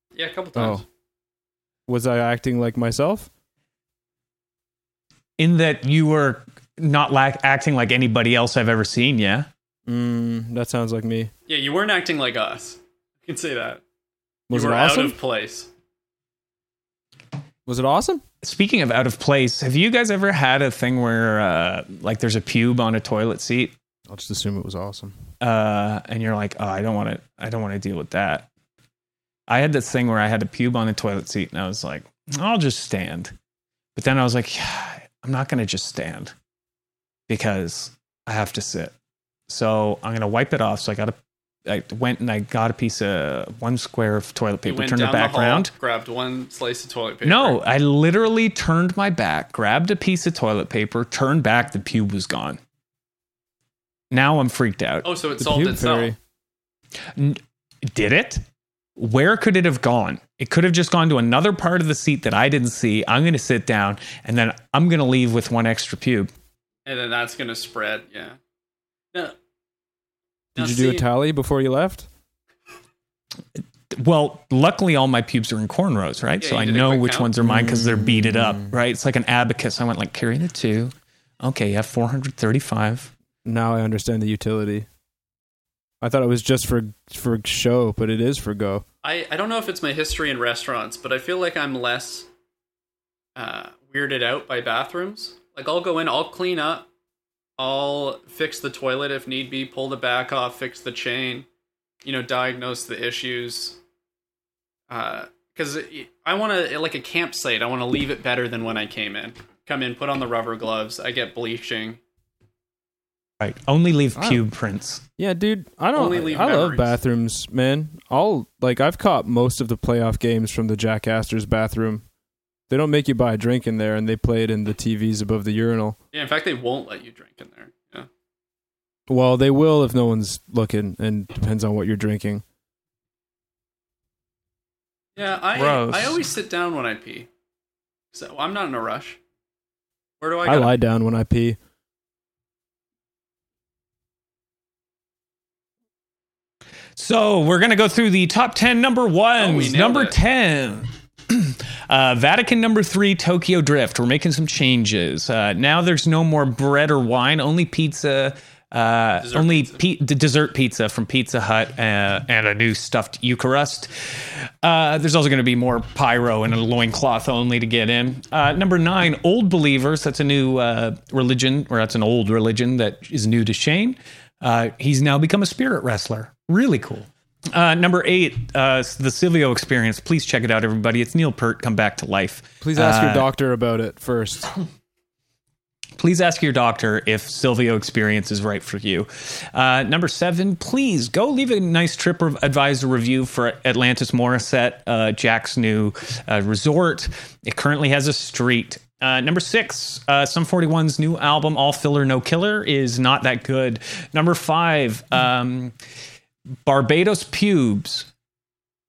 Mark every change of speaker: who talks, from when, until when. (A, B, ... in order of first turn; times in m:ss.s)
0:00.1-0:00.8 A
0:00.5-0:00.8 B
0:01.9-0:03.3 B
0:05.4-0:09.5 C
0:09.9-0:11.3 B
0:11.5-0:13.8 A
0:14.5-0:15.2 B
0:14.5-0:15.7 A
0:17.6-0:18.2 B
0:18.4-0:23.7 C
0:24.1-0:25.1 B
0:25.4-0:28.5 C
0:29.5-0:33.3 C
0:33.9-0:36.3 C
0:37.3-0:38.9 C
0:39.5-0:45.7 C
0:44.6-0:47.6 A
0:47.2-0:52.6 C
0:54.1-0:55.1 C
0:55.0-0:56.1 A
0:55.4-0:56.2 B
0:57.2-0:58.4 C
0:59.0-1:06.3 C
1:06.8-1:08.4 A
1:10.6-1:11.0 A
1:10.6-1:12.1 B
1:13.6-1:23.1 C
1:16.4-1:17.3 A
1:17.4-1:18.7 B
1:23.4-1:24.9 B
1:26.0-1:28.8 B
1:29.0-1:32.3 A
1:33.4-1:36.9 A
1:37.6-1:41.4 A
1:42.0-1:43.8 A
1:44.9-1:52.0 A
1:53.4-1:55.0 C
1:55.2-2:02.0 B
1:55.9-1:57.0 A
2:02.7-2:06.0 B
2:06.1-2:08.1 A
2:09.1-2:12.4 B
2:15.2-2:17.3 A
2:15.5-2:16.2 C
2:18.1-2:19.2 A
2:20.2-2:20.7 A
2:20.4-2:21.6 B
2:27.0-3:03.3 C
2:29.4-2:30.2 A
2:39.2-2:39.8 A
3:02.6-3:04.5 B
3:06.0-3:25.7 C
3:26.6-3:28.1 C